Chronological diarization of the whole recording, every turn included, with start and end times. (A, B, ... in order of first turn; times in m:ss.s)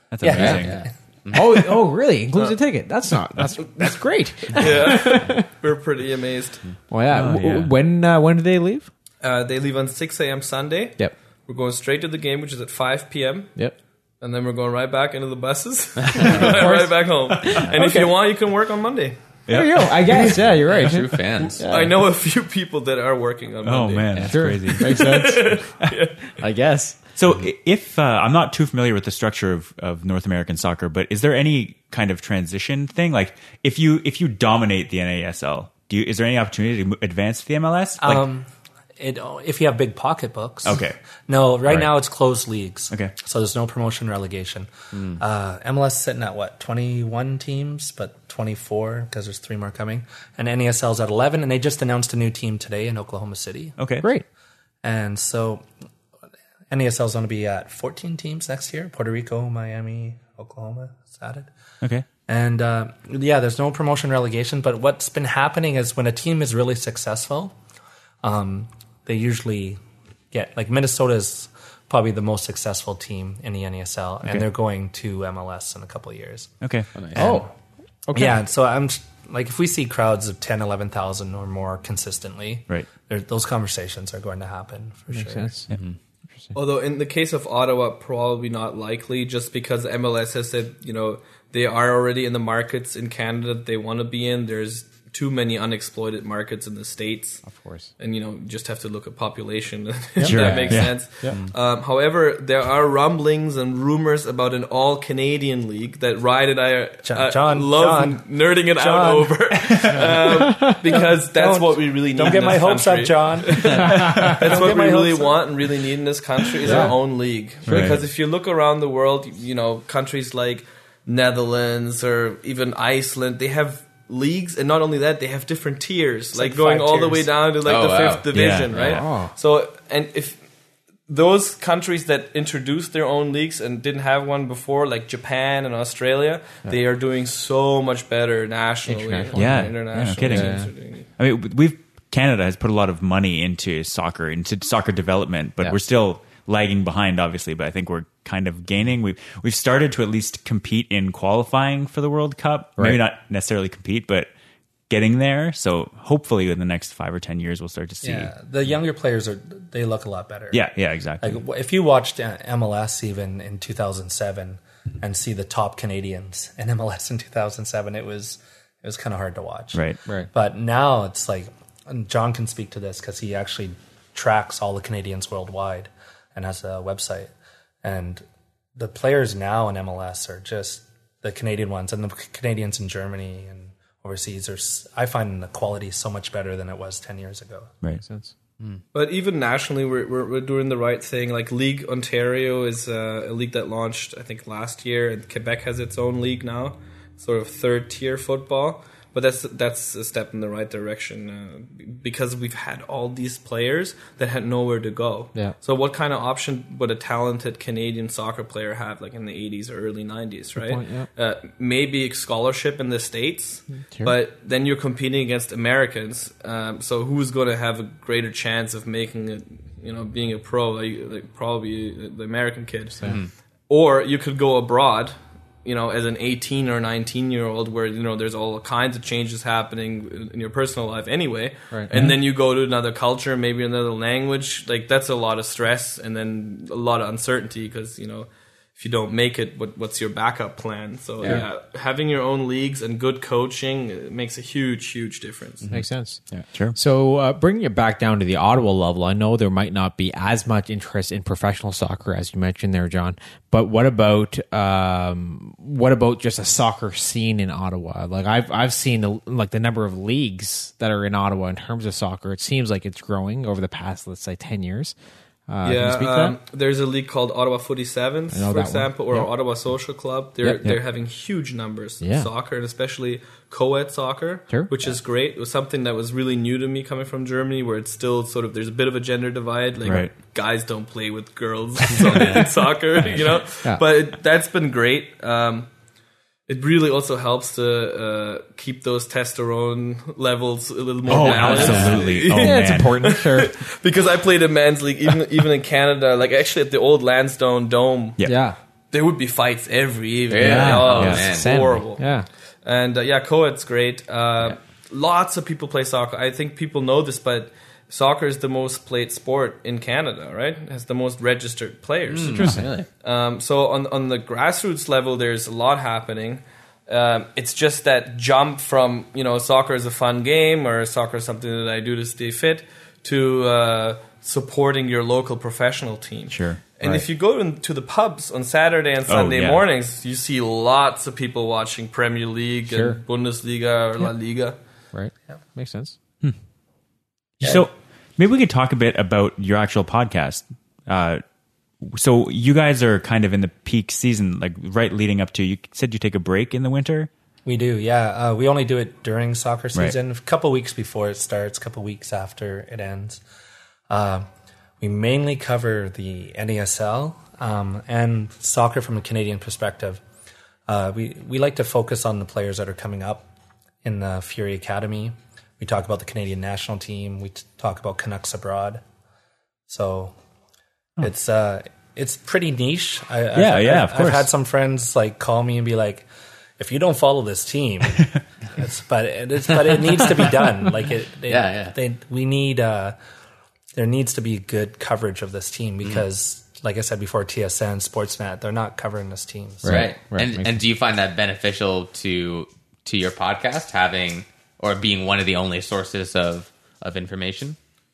0:00.1-0:00.8 A
0:00.2-0:00.9 B
0:00.3-0:01.6 C
0:01.3-0:05.5 D
0:04.5-0:06.6 E
0:06.9-0:08.9 D
0:07.1-0:07.7 A
0:09.2-0:13.6 E
0:14.2-0:19.2 E
0:16.1-0:16.7 C
0:16.2-0:18.1 D
0:19.5-0:20.3 A
0:19.5-0:21.9 D
0:20.3-0:21.6 C
0:21.4-0:26.4 E
0:23.6-0:25.1 A
0:24.3-0:25.6 D
0:26.4-0:27.0 D
0:27.2-0:38.2 A
0:38.0-0:53.8 B
0:40.6-0:41.0 A
0:41.7-0:41.9 A
0:44.9-0:45.2 C
0:53.8-0:54.1 A
0:54.8-0:55.6 B
0:56.7-1:01.5 B
1:02.3-1:07.6 B
1:08.2-1:09.8 B
1:10.3-1:16.5 B
1:16.6-1:16.9 A
1:17.0-1:17.3 C
1:17.2-1:17.4 B
1:17.2-1:17.5 D
1:18.1-1:18.4 D
1:18.2-1:25.6 B
1:25.1-1:25.7 D
1:25.7-1:26.0 C
1:26.5-1:37.5 E
1:37.4-1:37.9 D
1:38.0-2:10.4 E
1:40.2-1:41.4 D
1:40.2-1:41.1 A
1:40.4-1:41.5 C
1:47.0-1:50.0 B
1:50.3-1:50.8 D
1:50.9-1:55.4 B
1:54.0-1:54.3 D
1:56.6-1:56.9 B
1:56.7-1:56.9 D
1:57.7-1:58.0 A
1:57.7-1:58.0 D
2:06.3-2:07.3 B
2:07.6-2:09.0 C
2:08.3-2:09.0 A
2:08.9-2:09.3 D
2:11.1-2:21.1 E
2:18.9-2:20.7 D
2:19.4-2:34.3 A
2:34.9-2:38.3 A
2:38.0-2:40.7 B
2:40.5-2:41.4 A
2:41.2-2:57.3 B
2:49.7-2:50.0 A
2:57.8-2:58.2 B
2:58.8-3:07.7 B
3:08.0-3:08.3 D
3:08.9-3:43.0 E
3:30.6-3:31.1 D
3:33.8-3:34.2 D
3:43.0-3:43.3 C
3:43.7-4:05.7 E
4:05.6-4:06.5 C
4:05.7-4:25.0 D
4:25.5-4:26.4 D
4:25.6-4:45.7 E
4:28.3-4:29.3 D
4:30.4-4:30.7 D
4:32.0-4:32.3 D
4:39.8-4:40.1 A
4:42.0-4:42.5 C
4:46.5-4:58.2 E
4:51.1-4:53.2 A
4:51.1-4:52.0 C
4:52.3-4:53.6 D
4:58.2-4:58.4 A
4:58.2-4:58.6 D
4:58.9-5:02.0 E
5:00.3-5:01.5 C
5:00.4-5:02.3 D
5:00.4-5:01.3 A
5:02.6-5:34.6 E
5:12.1-5:12.9 C
5:26.3-5:26.9 A
5:29.1-5:29.6 A
5:32.7-5:33.0 D
5:34.9-5:36.0 D
5:37.4-5:41.2 A
5:41.8-5:47.1 A
5:47.4-5:53.2 B
5:53.9-5:54.3 B
5:54.8-6:00.0 B
6:00.7-6:03.3 B
6:03.8-6:08.8 B
6:09.7-6:10.2 B
6:11.0-6:16.1 B
6:13.4-6:14.3 A
6:16.6-6:23.0 B
6:21.3-6:21.8 C
6:23.8-6:29.9 B
6:29.6-6:30.6 D
6:29.6-6:37.6 C